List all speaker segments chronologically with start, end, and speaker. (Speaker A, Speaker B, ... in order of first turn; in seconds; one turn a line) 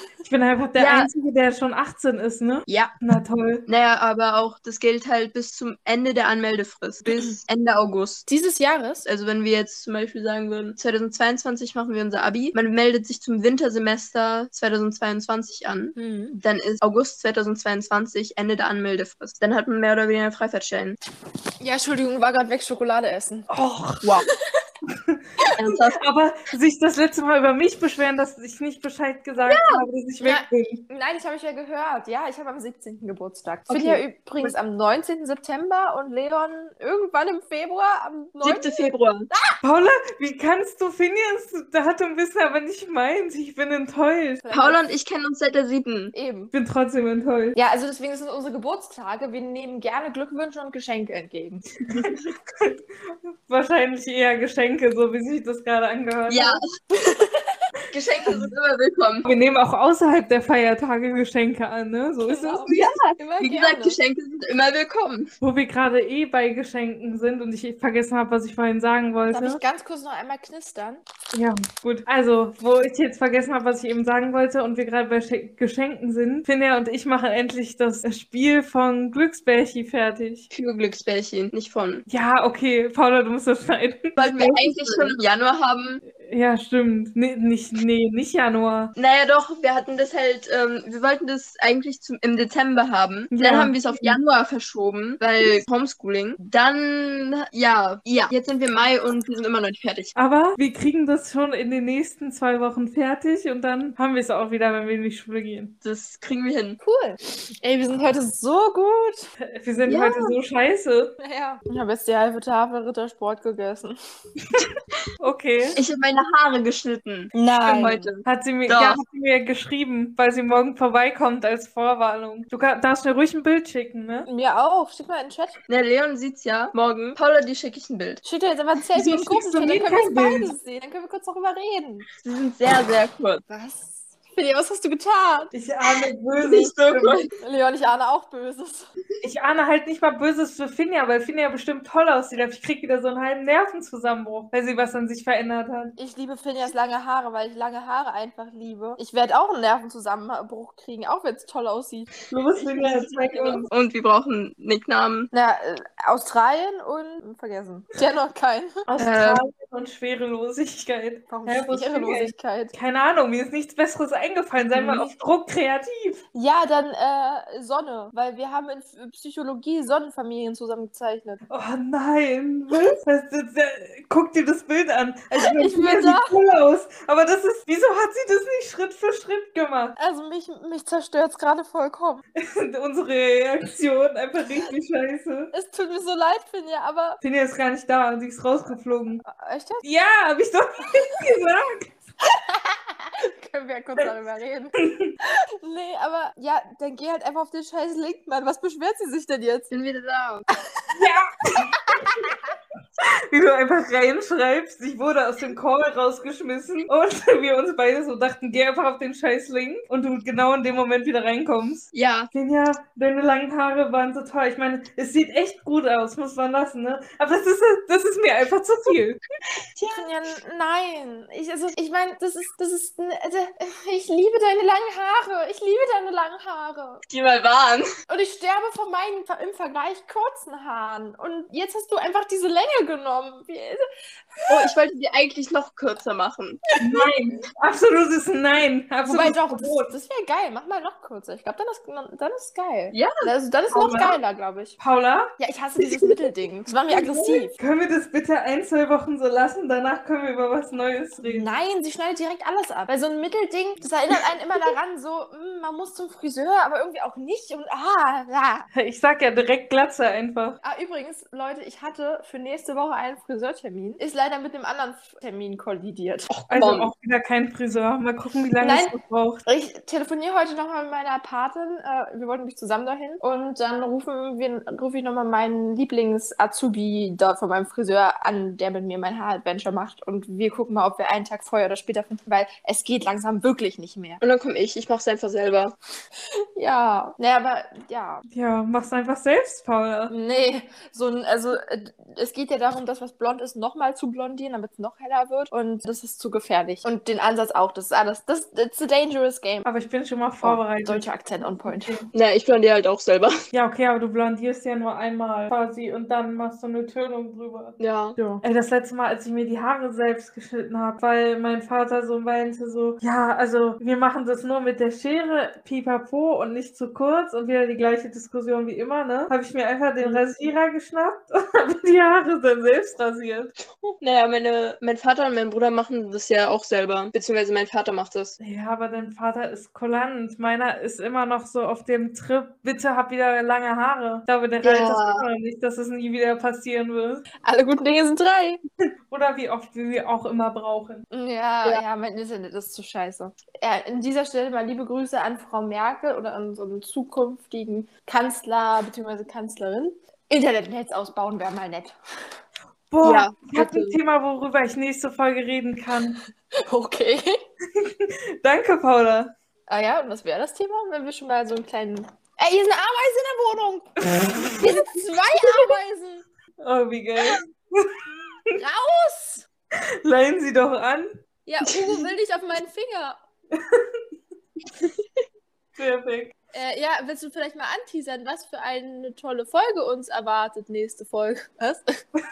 Speaker A: 0.2-3.6
Speaker B: 0.8-1.1
Speaker C: 3.6-8.2
Speaker B: 7.1-7.3
Speaker B: 8.3-9.0
Speaker C: 9.0-21.0
Speaker B: 15.9-16.4
Speaker B: 21.6-23.5
Speaker A: 23.5-24.1
Speaker A: 24.9-25.2
Speaker C: 25.6-26.0
Speaker A: 25.9-30.8
Speaker C: 29.4-29.8
Speaker B: 30.2-39.6
Speaker C: 33.7-34.5
Speaker C: 38.4-39.3
Speaker A: 39.6-44.4
Speaker B: 44.4-44.8
Speaker C: 44.5-46.1
Speaker B: 46.1-46.5
Speaker A: 46.5-47.6
Speaker B: 47.5-51.6
Speaker C: 51.9-52.1
Speaker A: 52.6-56.6
Speaker C: 56.3-56.6
Speaker B: 57.0-57.6
Speaker C: 57.9-59.2
Speaker A: 59.2-62.7
Speaker B: 62.3-64.0
Speaker C: 62.7-65.3
Speaker A: 65.4-69.6
Speaker B: 69.3-71.0
Speaker A: 71.3-80.5
Speaker C: 80.5-82.0
Speaker A: 82.1-84.6
Speaker C: 84.2-86.0
Speaker B: 84.8-85.0
Speaker A: 86.1-88.9
Speaker C: 89.0-100.1
Speaker A: 93.3-94.2
Speaker A: 100.2-105.7
Speaker C: 105.8-106.8
Speaker B: 106.8-109.3
Speaker A: 109.4-111.1
Speaker C: 109.8-110.4
Speaker B: 111.2-114.0
Speaker A: 115.2-115.8
Speaker C: 115.8-119.0
Speaker B: 117.3-118.1
Speaker A: 118.2-124.3
Speaker B: 124.3-125.6
Speaker C: 125.7-128.2
Speaker B: 128.2-132.1
Speaker A: 128.9-130.5
Speaker C: 132.2-133.4
Speaker B: 133.5-135.5
Speaker A: 135.5-137.3
Speaker C: 136.4-137.3
Speaker B: 137.4-138.9
Speaker A: 139.2-145.9
Speaker B: 146.0-152.1
Speaker A: 152.3-153.7
Speaker C: 152.3-155.3
Speaker B: 155.3-159.3
Speaker A: 158.9-166.2
Speaker C: 159.0-159.4
Speaker B: 161.3-162.7
Speaker B: 164.7-165.0
Speaker B: 166.3-171.4
Speaker A: 171.5-179.9
Speaker B: 175.3-176.3
Speaker B: 180.0-182.2
Speaker A: 182.3-185.5
Speaker B: 185.5-187.2
Speaker A: 187.2-189.2
Speaker B: 189.2-189.8
Speaker A: 189.8-191.9
Speaker B: 192.2-199.7
Speaker A: 194.8-195.1
Speaker C: 199.7-200.4
Speaker A: 200.9-202.3
Speaker B: 201.9-202.2
Speaker A: 203.0-219.2
Speaker C: 211.9-212.3
Speaker C: 219.7-220.1
Speaker B: 219.9-227.0
Speaker C: 227.1-227.9
Speaker B: 228.1-233.8
Speaker B: 234.3-234.7
Speaker C: 234.5-236.6
Speaker B: 236.7-237.1
Speaker A: 236.8-239.9
Speaker B: 239.1-244.8
Speaker C: 242.9-243.2
Speaker A: 243.7-244.2
Speaker A: 244.8-245.3
Speaker B: 245.4-247.5
Speaker A: 246.9-251.4
Speaker B: 251.2-258.7
Speaker A: 258.7-260.6
Speaker B: 260.6-266.3
Speaker C: 266.3-266.9
Speaker A: 266.5-269.4
Speaker B: 268.6-268.9
Speaker B: 269.4-284.2
Speaker C: 284.2-285.7
Speaker B: 286.6-288.2
Speaker A: 288.3-290.1
Speaker B: 290.1-299.6
Speaker A: 299.6-302.1
Speaker B: 300.4-302.0
Speaker C: 302.1-303.4
Speaker A: 303.5-307.8
Speaker C: 307.8-308.2
Speaker B: 308.2-308.4
Speaker A: 308.3-323.5
Speaker C: 324.0-328.4
Speaker A: 328.4-337.2
Speaker C: 334.6-335.2
Speaker B: 337.4-338.6
Speaker A: 339.1-341.0
Speaker B: 341.1-351.9
Speaker A: 352.9-356.2
Speaker C: 353.0-354.0
Speaker B: 356.6-357.4
Speaker A: 357.7-359.3
Speaker B: 359.7-366.2
Speaker A: 364.3-364.6
Speaker A: 366.6-368.5
Speaker B: 368.6-369.4
Speaker A: 370.0-371.1
Speaker B: 371.4-373.2
Speaker A: 373.5-373.9
Speaker A: 375.8-376.3
Speaker B: 376.5-382.0